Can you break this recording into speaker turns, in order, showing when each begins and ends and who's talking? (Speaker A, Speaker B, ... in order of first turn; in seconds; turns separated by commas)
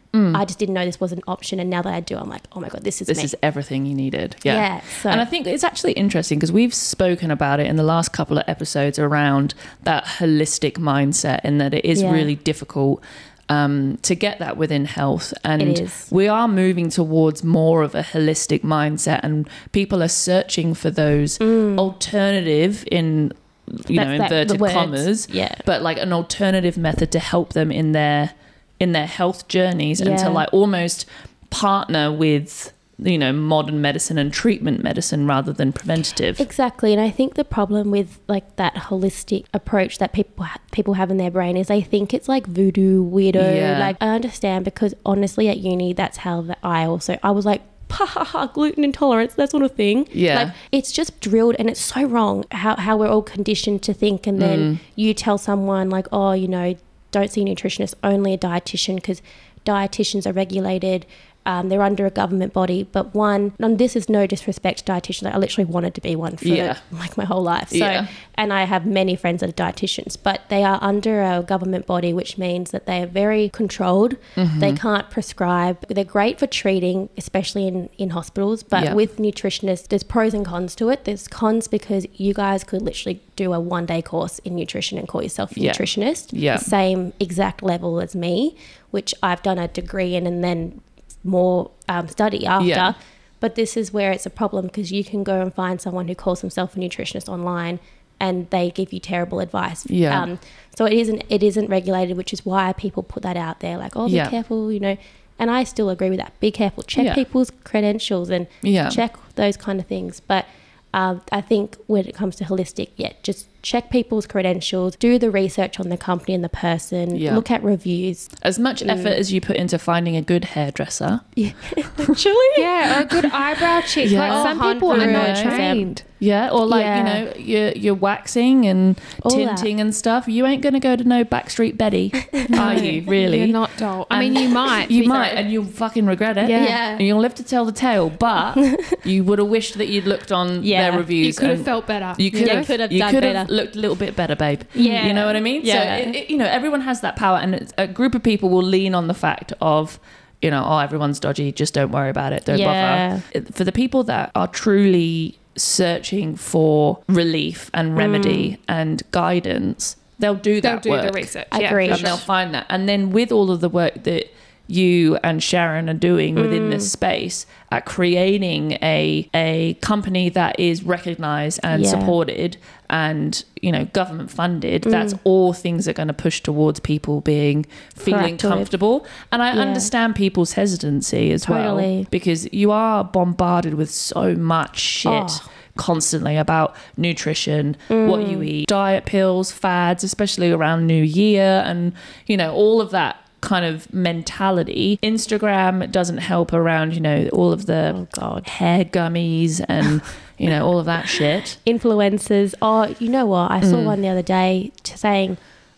Speaker A: 0.1-0.4, Speaker B: 0.3-3.3, Speaker A: 3.1-36.4, Speaker B: 4.4-5.3, Speaker B: 11.9-12.3, Speaker B: 15.6-16.1, Speaker B: 21.4-21.9, Speaker B: 23.9-25.6, Speaker B: 30.0-30.4, Speaker B: 36.4-118.3, Speaker A: 43.3-44.0, Speaker A: 50.1-50.5, Speaker A: 54.4-54.8, Speaker A: 66.4-66.8, Speaker A: 67.7-68.1, Speaker A: 74.4-74.8, Speaker A: 85.5-86.7, Speaker A: 92.6-92.9, Speaker A: 99.9-100.3, Speaker A: 104.1-104.3, Speaker A: 107.0-107.2, Speaker A: 108.6-109.0, Speaker A: 117.1-117.4, Speaker A: 118.4-121.2, Speaker B: 118.8-119.2, Speaker B: 121.3-123.2, Speaker C: 122.5-126.0, Speaker A: 124.0-133.6, Speaker B: 124.2-125.9, Speaker B: 126.7-127.2, Speaker B: 129.2-129.7, Speaker B: 132.3-133.0, Speaker C: 132.5-135.4, Speaker A: 134.1-161.3, Speaker C: 136.4-136.8, Speaker B: 136.5-137.1, Speaker B: 138.6-139.0, Speaker B: 140.6-141.1, Speaker C: 141.2-142.7, Speaker B: 142.3-143.5, Speaker B: 144.7-146.2, Speaker B: 152.5-153.2, Speaker B: 157.9-158.5, Speaker C: 160.6-162.2, Speaker B: 161.5-162.2, Speaker A: 161.8-201.6, Speaker B: 166.3-166.9, Speaker B: 171.7-172.2, Speaker B: 174.8-175.2, Speaker B: 178.0-178.7, Speaker B: 179.5-179.9, Speaker B: 181.4-182.1, Speaker B: 185.0-185.4, Speaker B: 187.9-188.5, Speaker B: 197.9-198.5, Speaker B: 201.6-205.4, Speaker A: 203.6-204.0